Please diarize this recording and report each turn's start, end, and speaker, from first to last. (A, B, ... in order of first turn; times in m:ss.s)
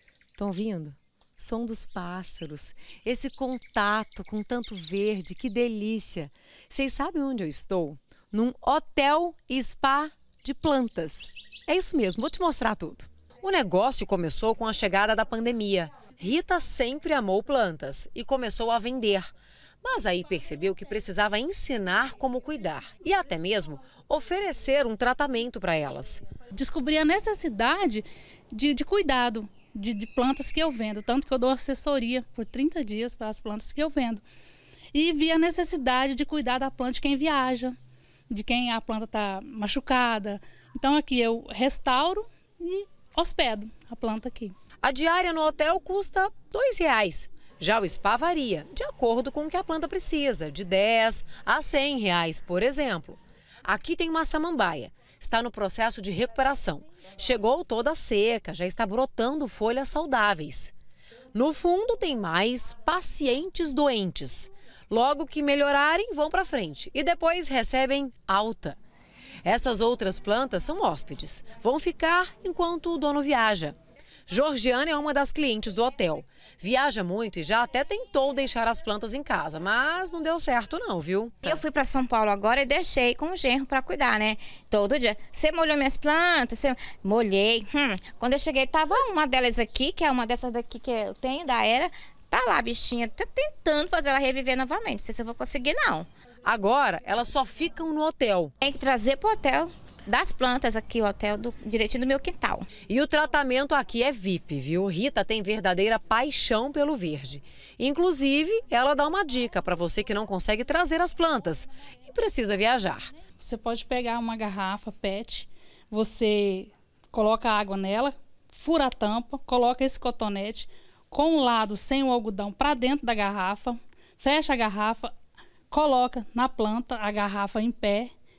0:00.4-0:19.3 A
0:19.8-0:26.2 A
0:26.5-0:34.2 B
0:34.9-0:37.7 B
0:38.3-0:44.5 B
0:44.8-1:00.7 A
1:01.3-1:08.8 A
1:09.4-1:13.8 A
1:14.3-1:21.6 A
1:21.4-1:36.1 C
1:36.4-1:38.5 A
1:38.6-1:42.7 C
1:42.9-1:53.1 A
1:53.4-2:05.1 B
2:05.7-2:08.1 B